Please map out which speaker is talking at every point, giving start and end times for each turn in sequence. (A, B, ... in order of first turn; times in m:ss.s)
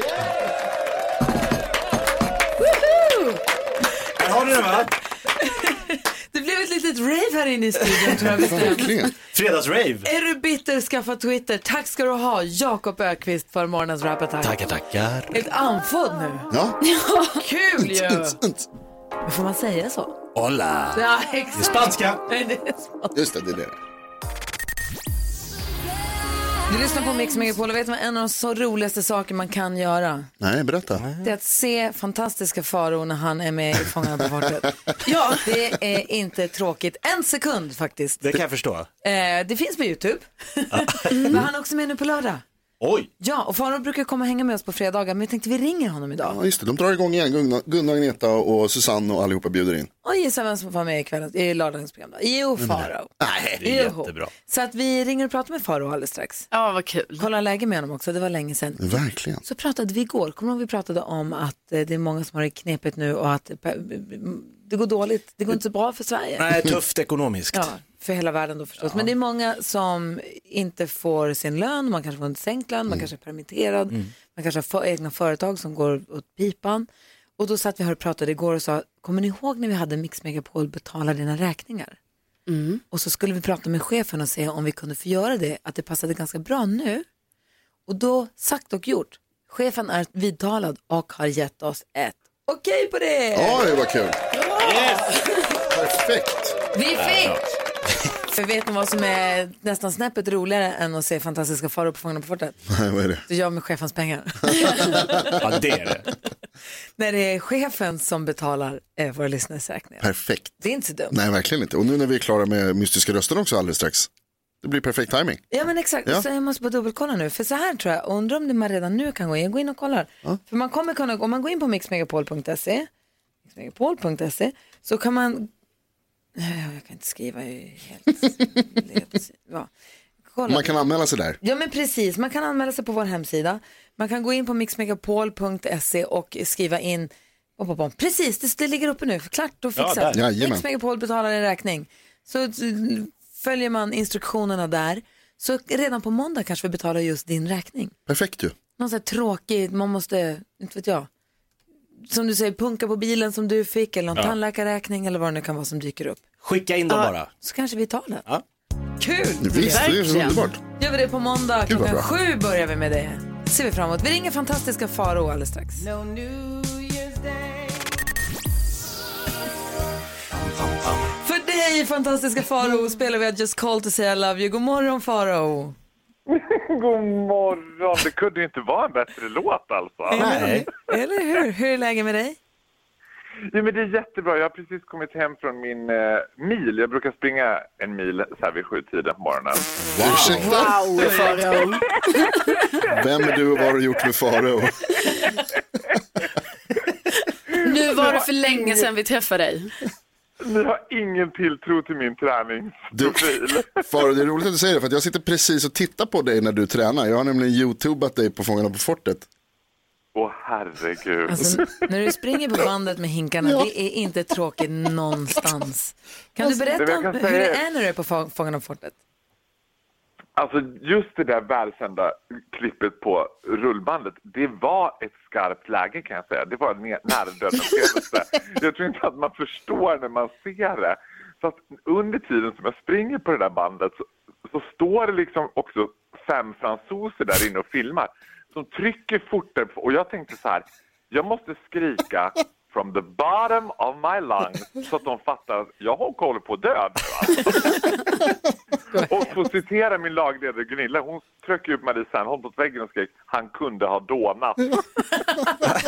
0:04.2-0:04.9 A
0:05.4-0:08.9 B
0:08.2-0:08.7 A
0:08.2-0:09.1 C
0:09.2-0:10.1 A
0:10.0-0:14.6 B
0:14.4-0:15.4 A
0:15.3-0:16.5 B
0:16.5-0:16.8 C
0:16.8-0:17.4 D
0:17.3-0:18.4 B
0:17.8-0:18.7 C
0:19.2-0:20.2 B
0:20.4-0:21.0 A
0:20.9-0:23.1 B
0:21.6-0:22.2 A
0:23.1-0:23.8 C
0:26.7-0:30.3 B
0:30.4-0:31.0 C
0:31.0-0:31.3 A
0:31.2-0:34.7 B
0:35.1-0:35.4 D
0:35.3-0:38.4 B
0:38.2-0:38.9 A
0:39.0-0:42.4 B
0:40.7-0:41.5 A
0:41.1-0:41.4 D
0:42.8-0:43.1 A
0:43.2-0:46.4 B
0:46.2-0:49.9 C
0:50.0-0:56.5 B
0:52.6-0:52.9 C
0:53.2-0:54.3 A
0:56.5-0:57.2 D
0:57.2-1:06.5 B
0:58.8-0:59.4 C
1:06.4-1:07.7 A
1:07.5-1:16.9 B
1:08.8-1:09.1 A
1:17.4-1:22.0 B
1:22.5-1:22.8 D
1:22.9-1:27.1 B
1:27.9-1:33.7 B
1:33.3-1:34.2 C
1:34.6-1:35.2 A
1:35.7-1:36.6 C
1:36.7-1:37.4 B
1:37.0-1:37.5 A
1:38.3-1:42.6 B
1:42.7-1:43.2 C
1:43.3-1:45.4 B
1:44.6-1:45.3 C
1:45.4-1:46.1 A
1:47.0-1:50.1 B
1:50.0-1:54.1 C
1:50.6-1:51.2 B
1:54.6-1:55.4 C
1:55.5-2:02.9 B
2:03.5-2:05.5 B
2:06.4-2:09.7 B
2:10.3-2:10.7 B
2:10.5-2:11.4 C
2:11.4-2:28.0 B
2:19.8-2:20.2 A
2:20.1-2:20.6 C
2:28.1-2:28.6 C
2:28.8-2:31.1 B
2:32.1-2:36.2 B
2:36.4-2:37.3 A
2:37.4-2:38.2 B
2:39.0-2:39.9 B
2:39.4-2:40.6 C
2:39.6-2:40.4 D
2:40.8-2:45.8 B
2:41.7-2:42.1 C
2:50.4-2:51.0 A
2:51.2-2:55.8 B
2:56.3-3:00.5 E
3:00.1-3:02.4 B
3:00.1-3:00.7 A
3:03.5-3:09.7 E
3:10.0-3:10.7 A
3:10.0-3:11.0 C
3:10.2-3:12.5 D
3:12.9-3:14.9 C
3:17.6-3:19.7 D
3:17.6-3:18.8 E
3:20.4-3:23.8 E
3:22.9-3:29.3 C
3:30.2-3:31.7 E
3:31.3-3:39.0 B
3:36.4-3:37.6 E
3:40.4-4:07.8 E
4:08.9-4:09.2 B
4:09.1-4:14.8 E